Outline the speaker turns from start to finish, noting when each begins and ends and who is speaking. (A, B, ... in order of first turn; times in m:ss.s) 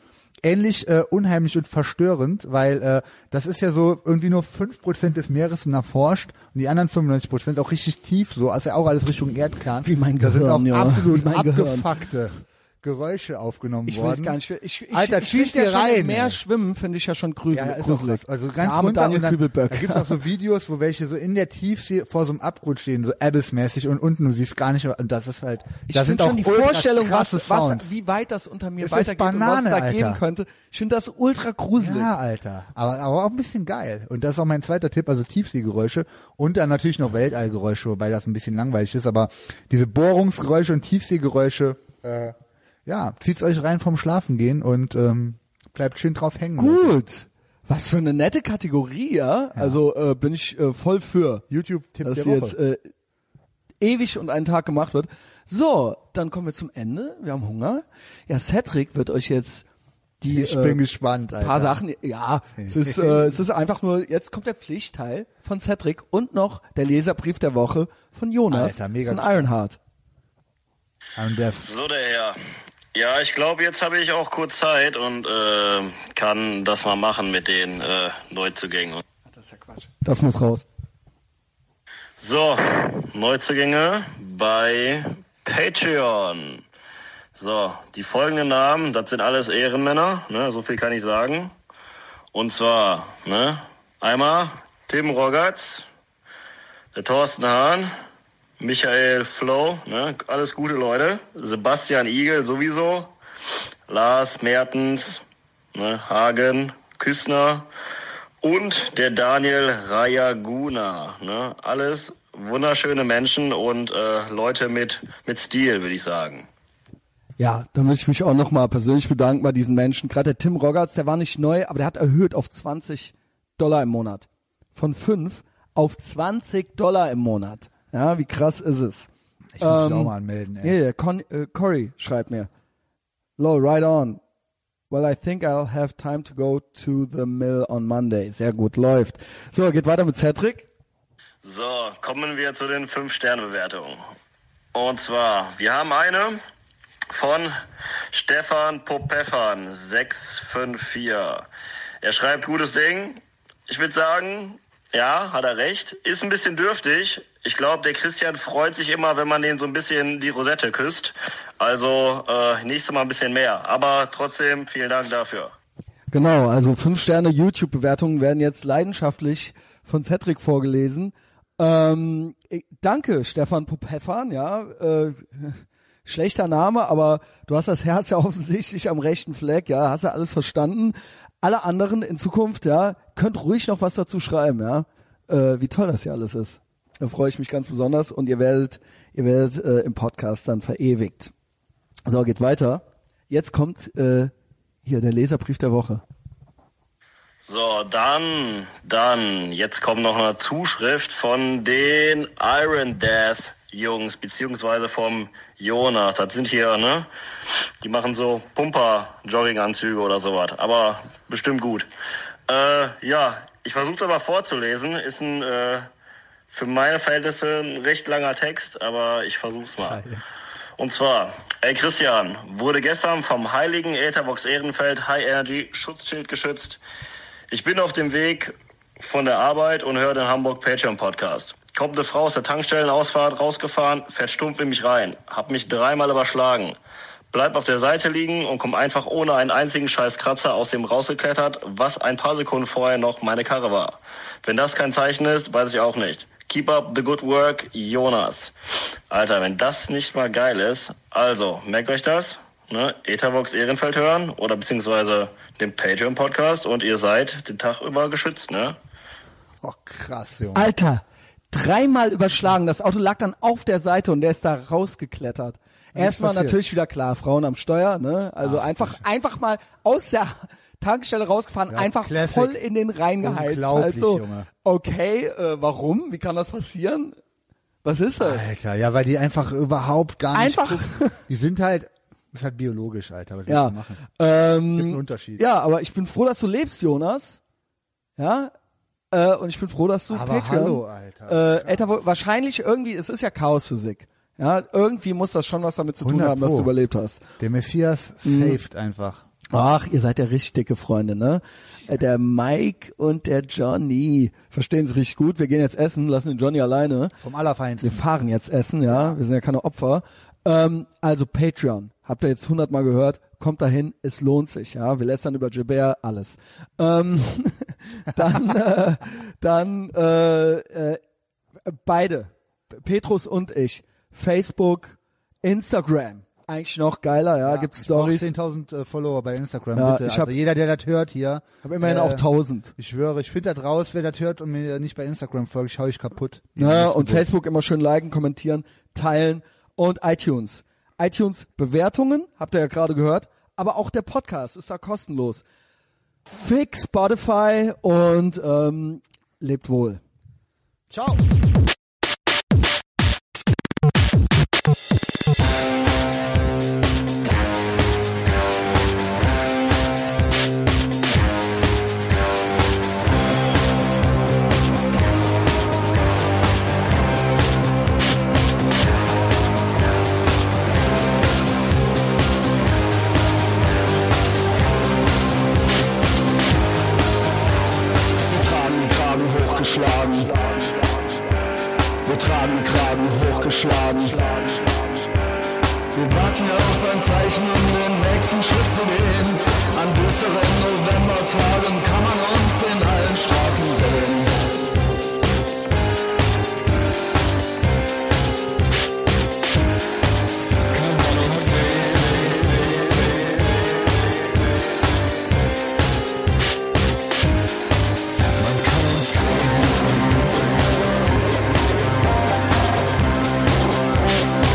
0:00.4-0:14.4 A
0:09.8-0:12.0 B
0:13.9-0:20.2 B
0:14.9-0:16.4 A
0:17.5-0:27.9 A
0:25.9-0:32.1 B
0:28.8-0:30.2 A
0:31.8-0:42.3 A
0:42.8-0:47.0 A
0:46.6-0:51.4 B
0:51.5-0:52.6 A
0:52.0-0:52.9 B
0:53.8-0:59.6 B
1:00.2-1:00.8 B
1:00.2-1:01.8 A
1:01.4-1:09.8 B
1:02.6-1:03.3 A
1:08.5-1:09.5 A
1:11.2-1:11.7 A
1:11.6-1:12.4 C
1:12.9-1:19.0 C
1:19.3-1:20.6 B
1:22.2-1:26.6 C
1:27.3-1:31.5 C
1:32.3-1:35.8 C
1:36.9-1:37.9 C
1:38.6-1:43.1 C
1:43.9-1:45.2 C
1:45.7-1:47.7 C
1:48.4-1:56.5 C
1:57.4-2:09.1 B
2:09.6-2:10.7 A
2:09.6-2:12.5 B
2:13.4-2:14.2 B
2:14.9-2:20.7 B
2:21.4-2:24.0 C
2:24.7-2:26.4 C
2:27.1-2:27.5 C
2:28.1-2:31.4 C
2:32.0-2:45.5 C
2:46.1-3:11.3 B
3:12.0-3:14.3 B
3:14.8-3:16.0 B
3:17.4-3:27.1 C
3:27.8-3:31.9 C
3:32.5-3:35.9 C
3:36.5-3:40.0 C
3:39.8-3:40.2 A
3:40.8-3:46.8 C
3:47.5-3:56.8 C
3:57.3-4:08.5 C
4:09.1-4:18.8 C
4:19.6-4:20.7 A
4:20.5-4:37.2 B
4:25.9-4:26.6 A
4:28.4-4:29.0 A
4:31.7-4:32.6 A
4:33.2-4:34.5 A
4:37.8-4:38.5 B
4:38.2-4:44.0 A
4:40.3-4:41.2 B
4:43.5-4:47.4 B
4:44.7-4:45.4 A
4:48.2-4:48.5 B
4:49.1-4:57.2 B
4:50.1-4:52.0 A
4:56.0-4:56.7 A
4:57.4-4:59.2 A
4:58.2-4:58.6 B
4:59.5-5:07.1 B
5:07.2-5:08.0 A
5:07.8-5:21.0 B
5:08.9-5:09.2 A
5:21.6-5:28.3 B
5:27.4-5:37.2 A
5:29.7-5:30.3 B
5:31.6-5:32.7 B
5:36.6-5:45.4 B
5:46.3-5:50.0 B
5:50.9-5:51.2 A
6:18.3-6:20.3 B
6:18.6-6:20.2 D
6:22.1-6:23.8 D
6:22.1-6:24.6 B
6:25.9-6:34.4 B
6:40.7-6:42.6 D
6:48.4-6:50.2 D